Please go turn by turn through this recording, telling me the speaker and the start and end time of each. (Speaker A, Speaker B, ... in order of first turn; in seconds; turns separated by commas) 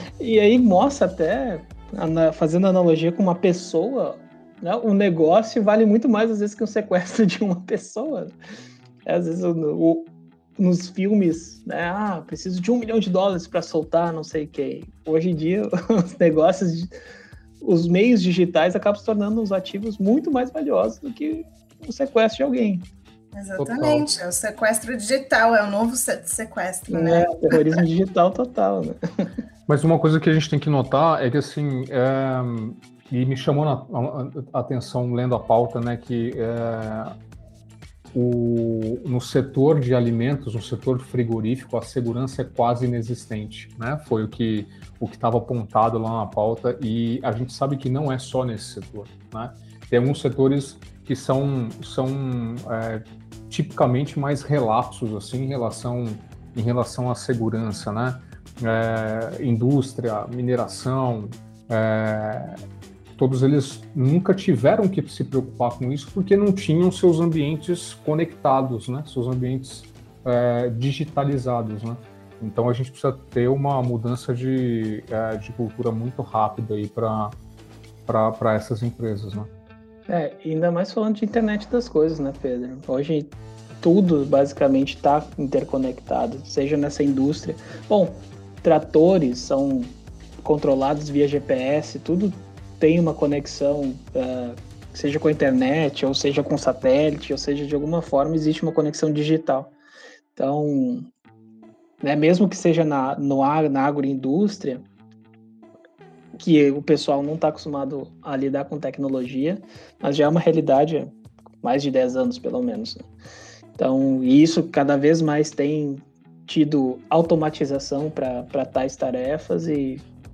Speaker A: 0.2-8.3, Speaker A: 9.1-16.9, Speaker A: 17.6-22.9, Speaker B: 23.3-27.8, Speaker C: 23.6-24.1, Speaker A: 26.9-29.3, Speaker C: 29.7-37.1, Speaker C: 38.1-62.6, Speaker C: 63.2-77.4, Speaker C: 78.1-79.5, Speaker A: 80.1-99.7, Speaker A: 100.4-101.1, Speaker A: 102.0-104.9, Speaker A: 106.4-113.1, Speaker A: 113.8-120.0